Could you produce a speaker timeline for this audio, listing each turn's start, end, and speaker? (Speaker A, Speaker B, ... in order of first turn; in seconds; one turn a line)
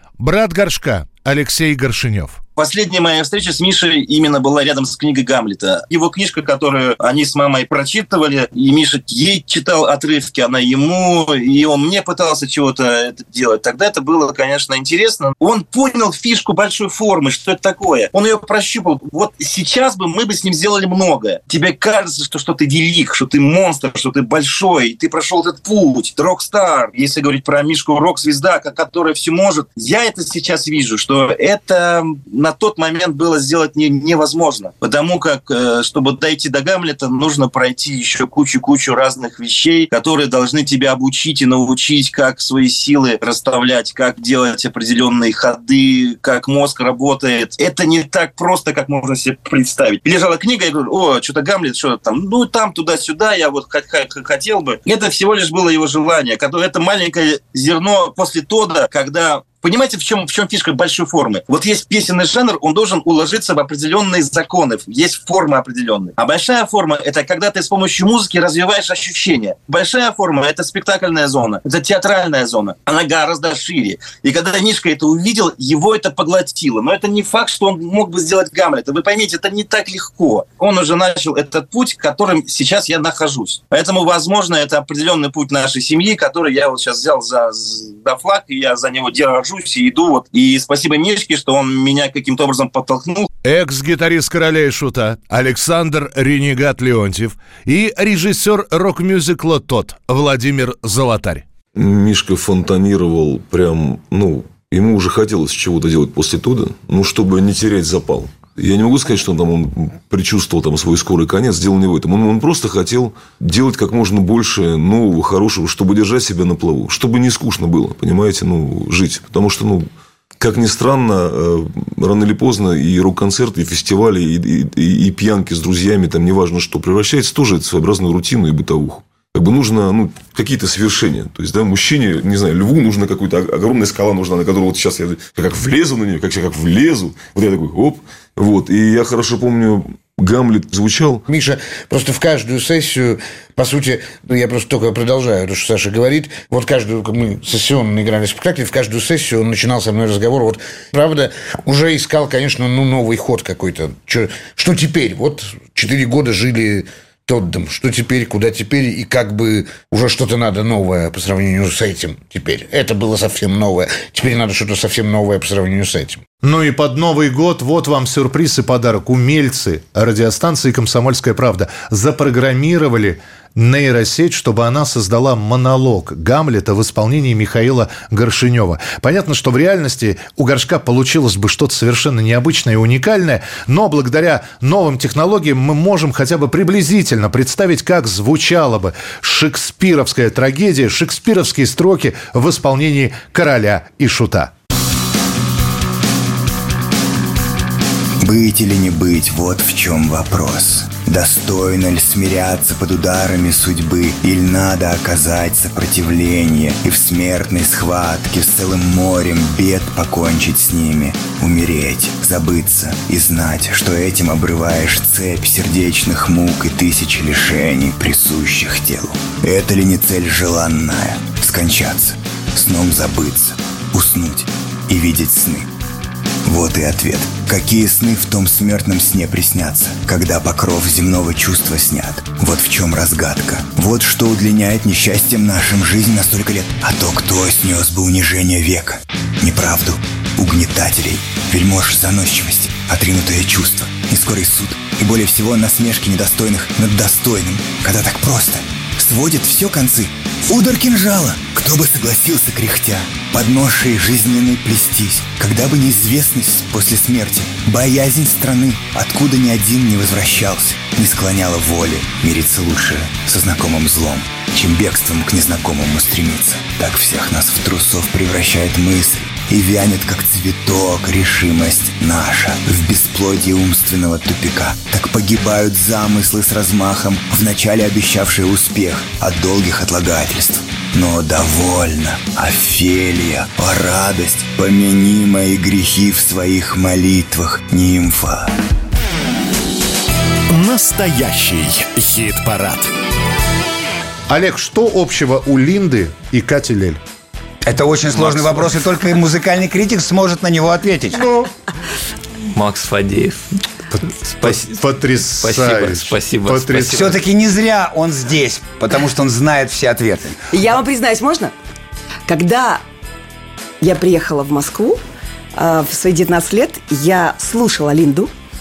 Speaker A: 0.2-2.4
Speaker B: 2.5-93.3
Speaker A: 93.4-101.4
Speaker C: 101.7-141.2
Speaker D: 141.3-166.2
Speaker A: 166.4-194.5
Speaker E: 198.2-225.7
Speaker E: 226.4-288.5
Speaker F: 290.5-292.9
Speaker A: 294.3-297.0
Speaker G: 297.6-301.2
Speaker A: 301.1-301.5
Speaker H: 302.5-303.4
Speaker A: 303.9-307.1
Speaker H: 304.4-304.8
Speaker H: 305.4-307.2
Speaker G: 306.9-310.4
Speaker I: 310.5-311.5
Speaker I: 312.3-312.8
Speaker I: 313.8-315.0
Speaker I: 315.5-318.3